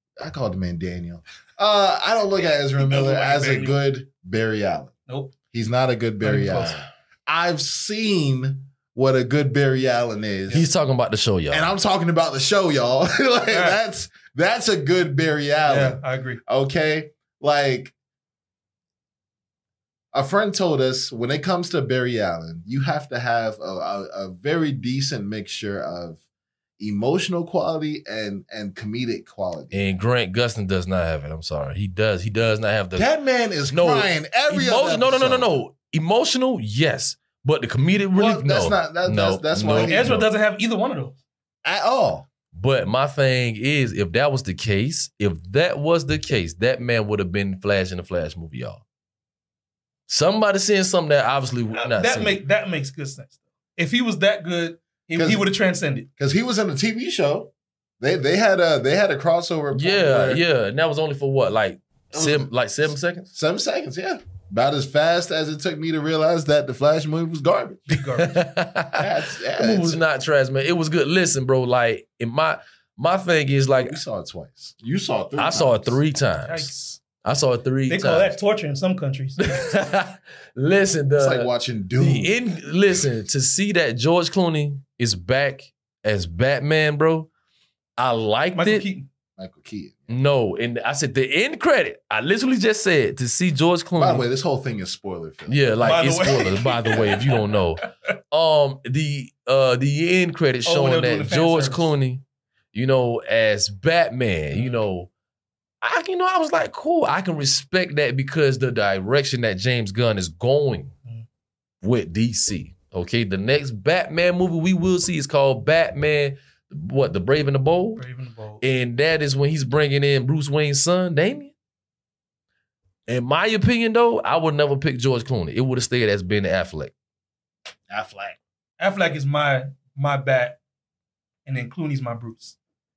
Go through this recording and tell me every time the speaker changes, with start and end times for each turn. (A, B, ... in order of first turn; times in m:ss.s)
0:00.2-0:04.9 A
0:02.8-0:03.8 B
0:05.1-0:05.3 B
0:05.5-0:10.7 A
0:06.2-0:06.8 B
0:10.5-0:11.7 C
0:11.5-0:17.9 A
0:13.5-0:13.8 B
0:15.7-0:16.4 B
0:20.1-0:26.2 A
0:26.8-0:29.8 A
0:29.7-0:33.1 C
0:33.0-0:35.5 A
0:33.7-0:40.3 C
0:38.2-0:40.2 A
0:39.7-0:41.2 B
0:41.6-0:42.3 A
0:42.5-0:48.8 C
0:50.1-0:52.4 C
0:51.7-0:56.1 B
0:55.1-0:55.5 A
0:56.2-1:00.4 A
0:59.7-1:03.3 C
1:02.1-1:07.9 A
1:07.9-1:08.4 B
1:08.2-1:14.0 C
1:08.9-1:10.0 A
1:13.8-1:16.0 A
1:15.4-1:18.4 C
1:16.4-1:17.0 B
1:17.9-1:19.7 B
1:19.4-1:27.3 C
1:21.2-1:22.4 A
1:28.0-1:28.8 C
1:28.5-1:29.1 B
1:29.4-1:30.2 A
1:30.1-1:34.2 C
1:34.0-1:36.0 A
1:35.5-1:42.2 C
1:35.8-1:37.9 B
1:40.6-1:41.9 B
1:42.7-1:45.1 C
1:44.5-1:44.8 B
1:45.8-1:50.9 C
1:51.8-1:58.0 C
1:58.0-1:58.6 B
1:58.6-2:01.5 C
2:03.1-2:06.9 C
2:07.9-2:08.4 A
2:08.8-2:10.6 B
2:11.4-2:12.6 B